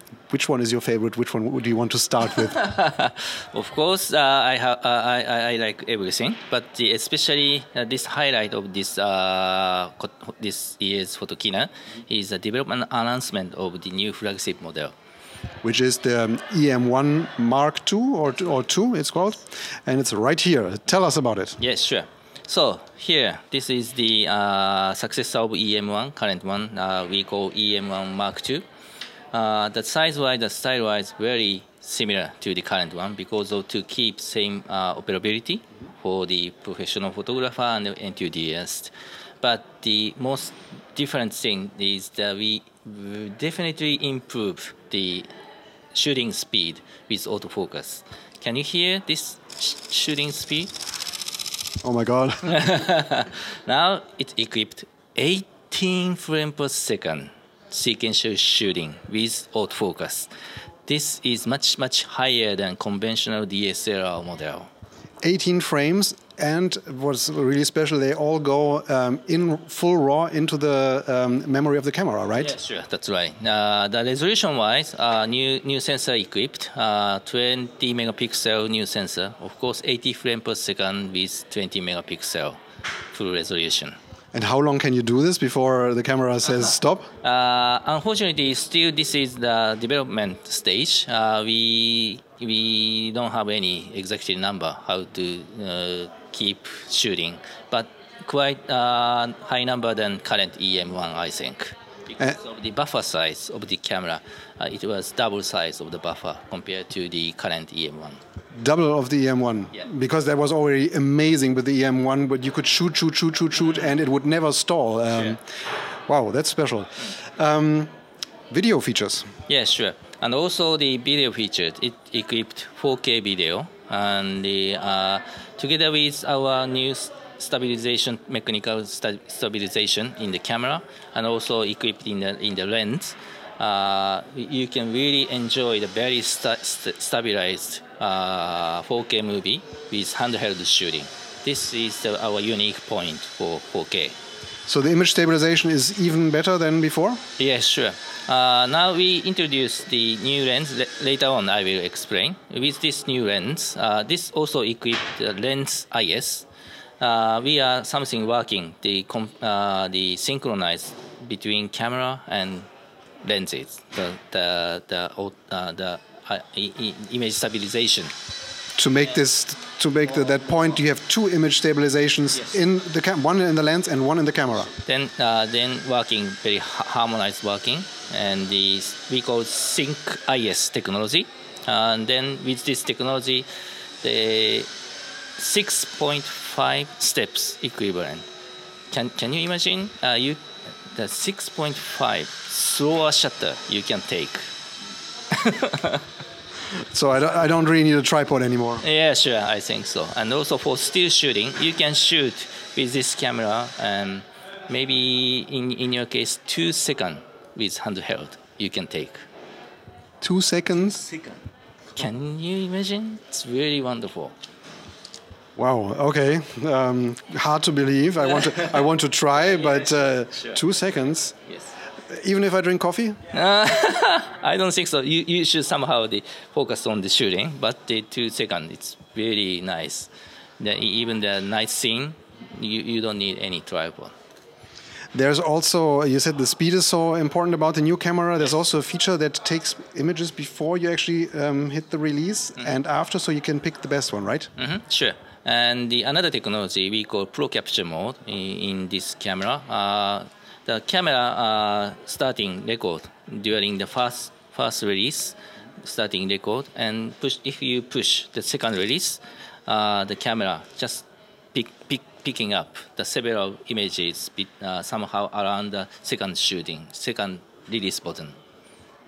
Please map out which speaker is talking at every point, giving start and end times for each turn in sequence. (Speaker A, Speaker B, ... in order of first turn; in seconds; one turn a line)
Speaker A: 0.3-2.6
Speaker B: 2.5-14.9
Speaker A: 15.6-21.6
Speaker B: 21.6-28.6
Speaker B: 29.3-45.3
Speaker B: 45.9-50.8
Speaker A: 51.8-52.5
Speaker B: 52.5-60.3
Speaker B: 60.9-64.7
Speaker A: 65.2-72.5
Speaker B: 72.4-82.6
Speaker B: 83.1-84.0
Speaker A: 84.3-87.1
Speaker B: 87.2-108.2
Speaker A: 108.6-115.4
Speaker A: 116.1-117.9
Speaker A: 118.5-119.3
Speaker B: 119.5-144.2
Speaker A: 144.7-147.2
Speaker B: 147.4-156.5
Speaker B: 157.0-162.7
Speaker B: 163.2-168.1
Speaker A: 168.8-174.7
Speaker B: 174.8-183.5
Speaker B: 184.0-184.7
Speaker B: 185.4-188.2
Speaker B: 188.9-194.5
Speaker B: 195.3-196.0
Speaker A: 196.8-198.8
Speaker B: 198.8-209.2
Speaker A: 210.2-211.0
Speaker B: 211.0-211.4
Speaker B: 212.0-214.3
Speaker A: 215.6-221.3
Speaker B: 218.5-218.8
Speaker B: 219.4-220.6
Speaker B: 221.5-221.7
Speaker A: 222.1-223.2
Speaker B: 223.3-234.1
Speaker A: 235.1-244.5
Speaker B: 244.6-268.4